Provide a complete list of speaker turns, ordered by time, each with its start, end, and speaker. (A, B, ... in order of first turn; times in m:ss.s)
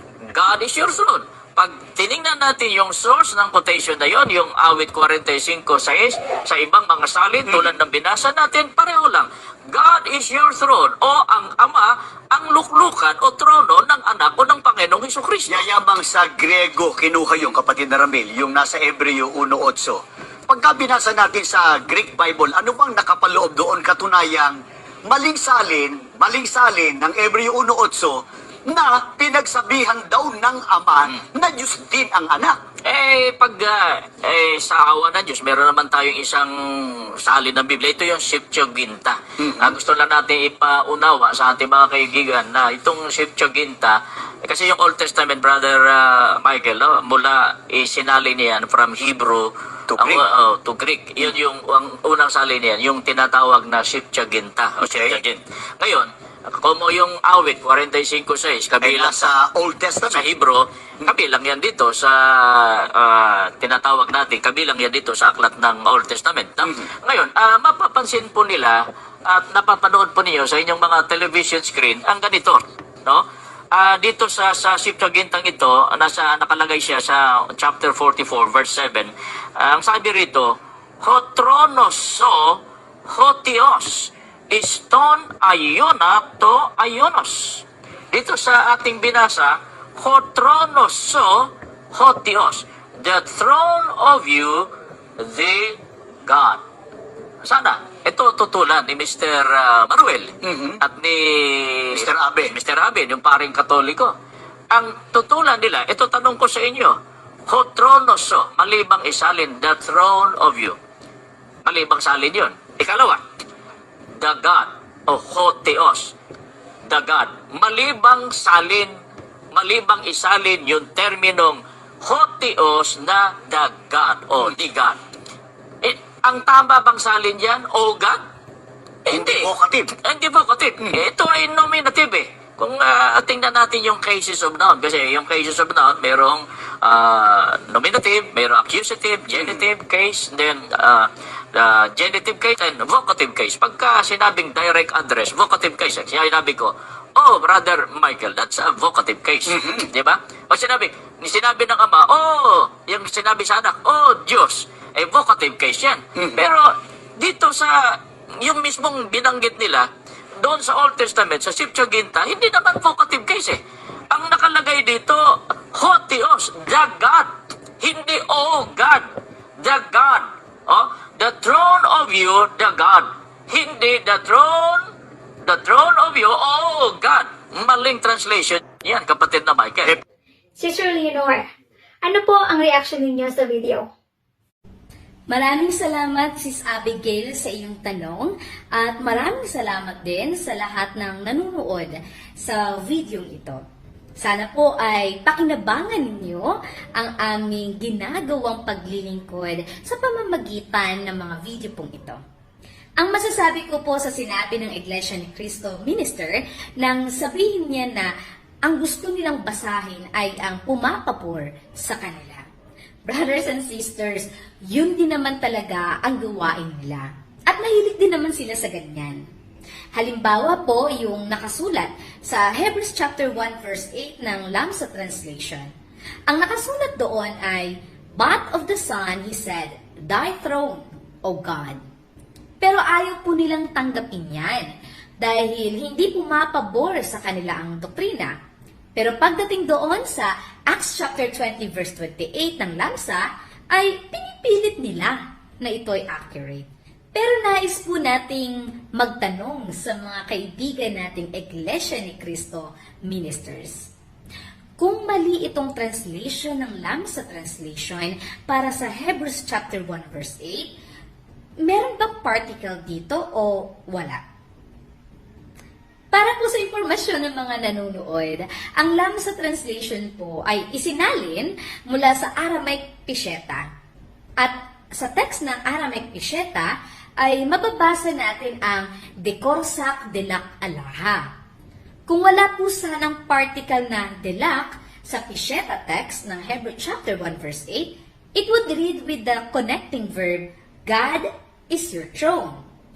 0:00.3-0:15.6 A
0:15.5-0:24.6 B
0:25.1-0:32.6 B
0:32.8-0:59.3 A
0:39.4-0:39.7 B
0:49.9-0:50.2 B
0:54.8-0:55.2 B
0:58.8-1:00.2 B
1:00.1-1:34.7 A
1:35.2-1:36.6 A
1:37.4-1:44.1 A
1:40.4-1:40.8 B
1:41.9-1:42.5 B
1:44.7-1:47.0 A
1:47.5-1:50.8 A
1:51.6-1:53.2 A
1:54.2-1:56.1 A
1:56.9-1:58.9 A
1:59.5-2:05.0 A
2:05.8-2:08.2 A
2:09.1-2:09.5 A
2:09.1-2:09.9 B
2:10.0-2:36.7 A
2:29.5-2:29.8 B
2:37.2-2:37.7 A
2:38.4-2:39.9 A
2:40.4-2:43.6 A
2:44.1-2:45.2 A
2:45.7-2:49.0 A
2:49.6-2:54.8 A
2:55.4-3:00.0 A
3:00.6-3:01.4 C
3:02.0-3:03.8 C
3:05.3-3:13.6 D
3:14.2-3:22.2 D
3:23.0-3:28.1 D
3:28.6-3:32.4 D
3:33.0-3:39.3 D
3:39.9-3:45.7 D
3:46.3-3:51.8 D
3:52.6-3:54.7 D
3:55.2-3:58.3 D
3:59.0-4:13.9 D
4:14.8-4:20.7 D
4:21.6-4:24.2 D
4:26.1-4:33.7 D
4:34.4-4:41.2 D
4:42.1-4:52.6 D